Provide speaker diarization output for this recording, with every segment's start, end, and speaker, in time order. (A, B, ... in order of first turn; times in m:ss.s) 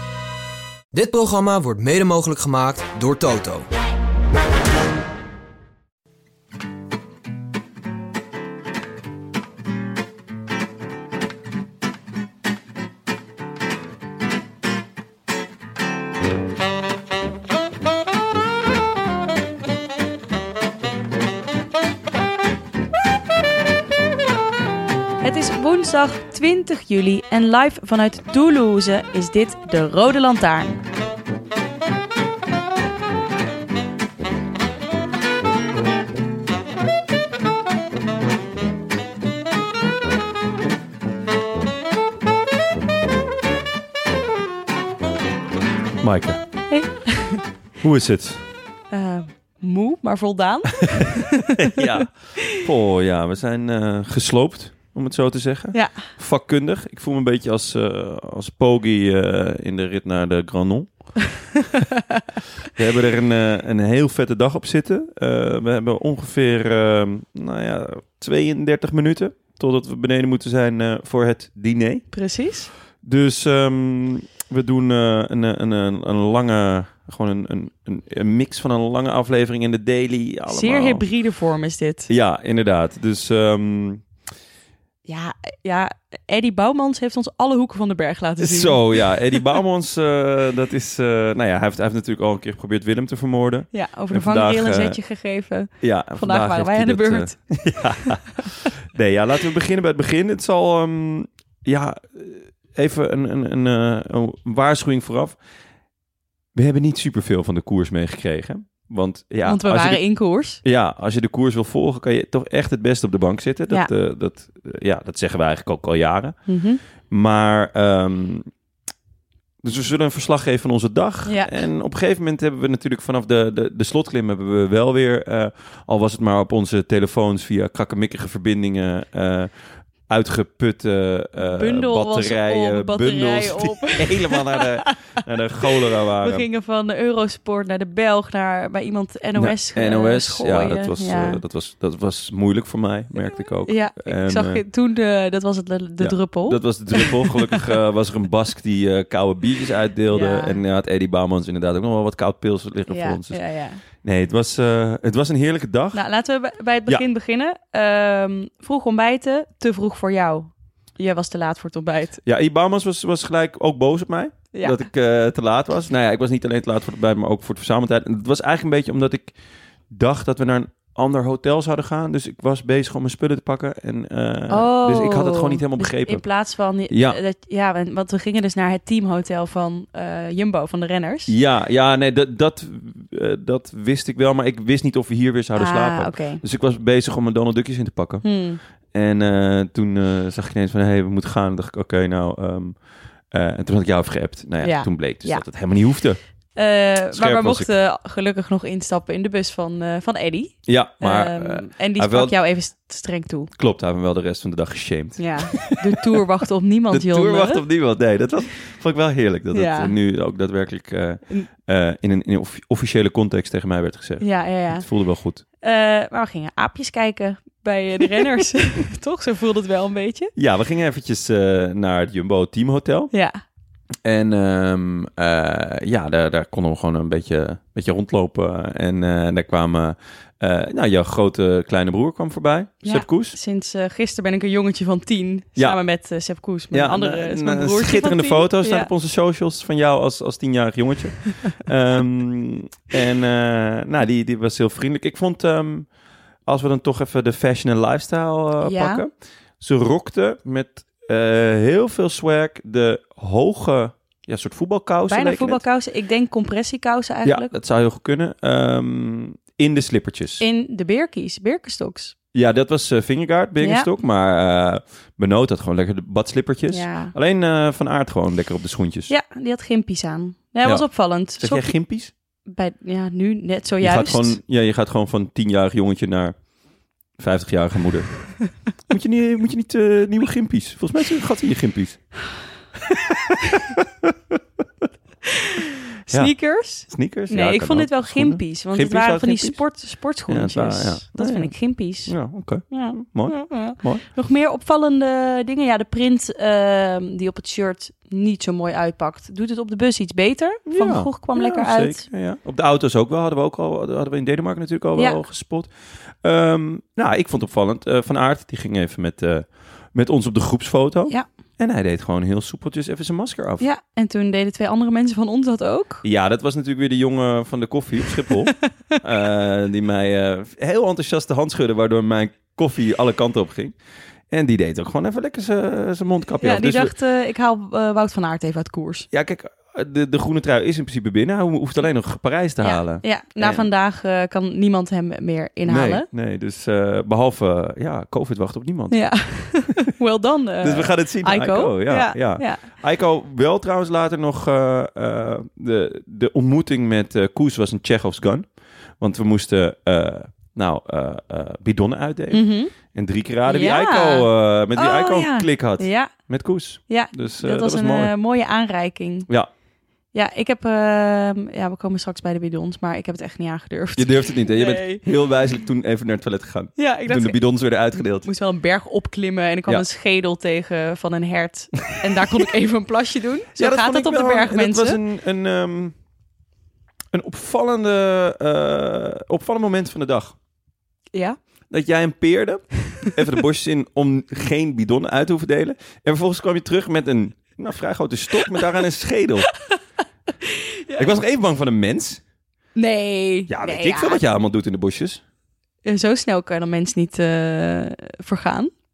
0:00.9-0:03.6 A
0:25.2-0:30.8 B
0:46.0-0:46.4 C
0:46.7-0:47.4 B
0:47.8-0:48.4 C
0:48.9-0:51.8 B
0:51.6-1:01.1 C
0:55.7-0:56.1 B
1:02.8-1:12.1 C
1:12.1-1:12.7 B
1:13.0-1:21.0 C
1:20.5-1:22.1 B
1:22.1-1:24.0 C
1:25.1-1:29.4 B
1:28.4-1:35.0 C
1:33.7-1:37.4 B
1:35.8-1:45.4 C
1:46.6-1:50.0 C
1:49.4-1:50.6 B
1:50.6-1:56.4 C
1:56.5-1:56.8 B
1:57.1-1:58.5 C
1:59.6-2:09.5 C
2:01.3-2:01.5 B
2:10.1-2:16.5 C
2:11.5-2:15.0 B
2:15.6-2:21.4 B
2:19.4-2:24.6 C
2:23.7-2:27.7 B
2:26.0-2:33.4 C
2:30.1-2:30.6 B
2:32.9-2:33.8 B
2:34.0-2:36.0 C
2:35.9-2:42.2 B
2:42.2-2:49.3 C
2:44.5-2:44.8 B
2:49.9-2:56.2 C
2:54.5-3:01.3 B
2:56.9-2:57.2 C
3:01.3-3:08.2 C
3:05.6-3:06.4 B
3:08.2-3:08.6 B
3:08.9-3:12.8 C
3:13.3-3:16.2 C
3:14.6-3:15.5 B
3:16.6-3:23.5 B
3:17.1-3:17.7 C
3:20.7-3:22.4 C
3:23.6-3:26.0 C
3:25.2-3:27.6 B
3:26.9-3:35.4 C
3:29.5-3:29.9 B
3:34.2-3:34.9 B
3:35.6-3:40.3 B
3:40.4-3:43.1 C
3:43.1-3:43.4 B
3:44.0-3:53.4 C
3:52.8-3:58.9 B
3:56.7-4:05.9 C
4:06.5-4:15.6 C
4:08.6-4:09.0 B
4:15.1-4:17.5 B
4:17.2-4:20.4 C
4:20.4-4:22.2 B
4:22.3-4:29.1 C
4:23.6-4:23.9 B
4:26.7-4:27.1 B
4:29.1-4:31.8 B
4:31.4-4:32.1 C
4:32.5-4:34.4 B
4:33.8-4:36.4 C
4:37.2-4:38.1 C
4:38.9-4:42.1 C
4:43.0-4:44.4 C
4:45.3-4:52.2 B
4:46.9-4:49.6 C
4:50.3-4:51.5 C
4:52.1-4:54.1 C
4:52.7-5:02.0 B
5:00.7-5:13.6 C
5:05.0-5:05.2 B
5:13.6-5:16.0 B
5:16.0-5:23.8 C
5:24.3-5:26.9 C
5:26.4-5:29.1 B
5:29.1-5:33.7 C
5:32.6-5:36.1 B
5:35.7-5:39.4 C
5:38.9-5:42.7 B
5:40.6-5:48.5 C
5:49.0-5:58.1 C
5:52.3-5:52.7 B
5:53.5-5:56.1 B
5:56.9-5:59.3 B
6:00.1-6:05.0 B
6:04.0-6:08.3 C
6:06.8-6:15.0 B
6:13.6-6:16.0 C
6:17.1-6:20.4 C
6:21.7-6:29.5 C
6:30.4-6:31.2 B
6:31.0-6:32.2 C
6:32.8-6:34.2 B
6:33.5-6:35.2 C
6:35.8-6:38.7 B